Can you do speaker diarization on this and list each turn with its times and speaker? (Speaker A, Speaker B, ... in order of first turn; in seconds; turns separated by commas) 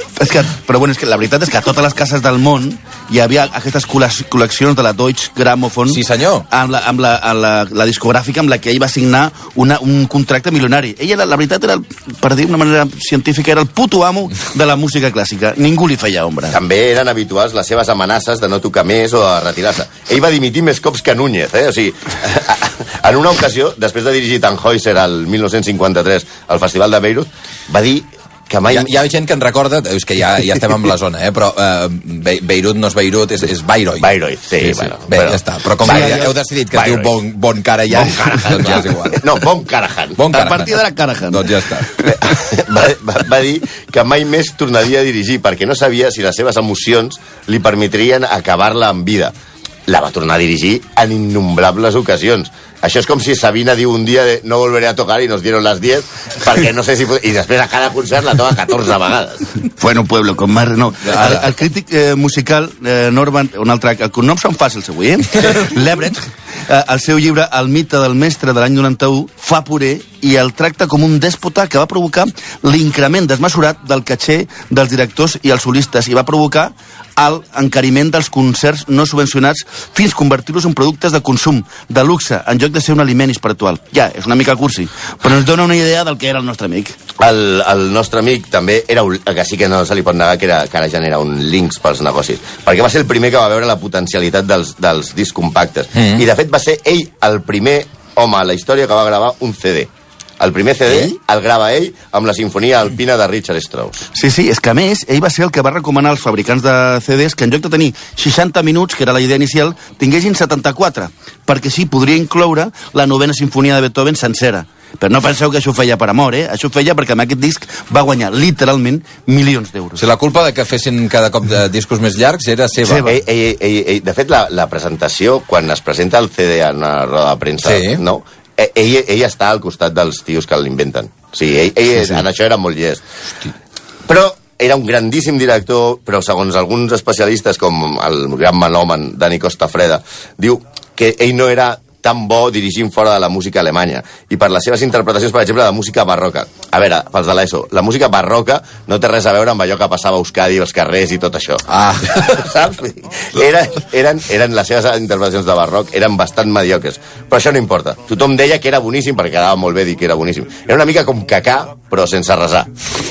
Speaker A: 0.2-16.6, Speaker B: 5.9-6.5, Speaker C: 16.5-28.9, Speaker B: 28.7-39.3, Speaker C: 34.0-37.1, Speaker A: 35.8-36.3, Speaker C: 37.9-40.3, Speaker B: 40.2-42.0, Speaker A: 40.3-42.1, Speaker C: 42.1-49.3, Speaker C: 49.9-59.5, Speaker A: 59.8-87.0, Speaker C: 87.2-104.1, Speaker B: 96.0-96.2, Speaker A: 104.1-120.0, Speaker B: 120.0-123.1, Speaker A: 122.8-123.2, Speaker C: 123.0-133.0, Speaker B: 127.6-128.0, Speaker C: 134.1-162.7, Speaker B: 151.7-152.4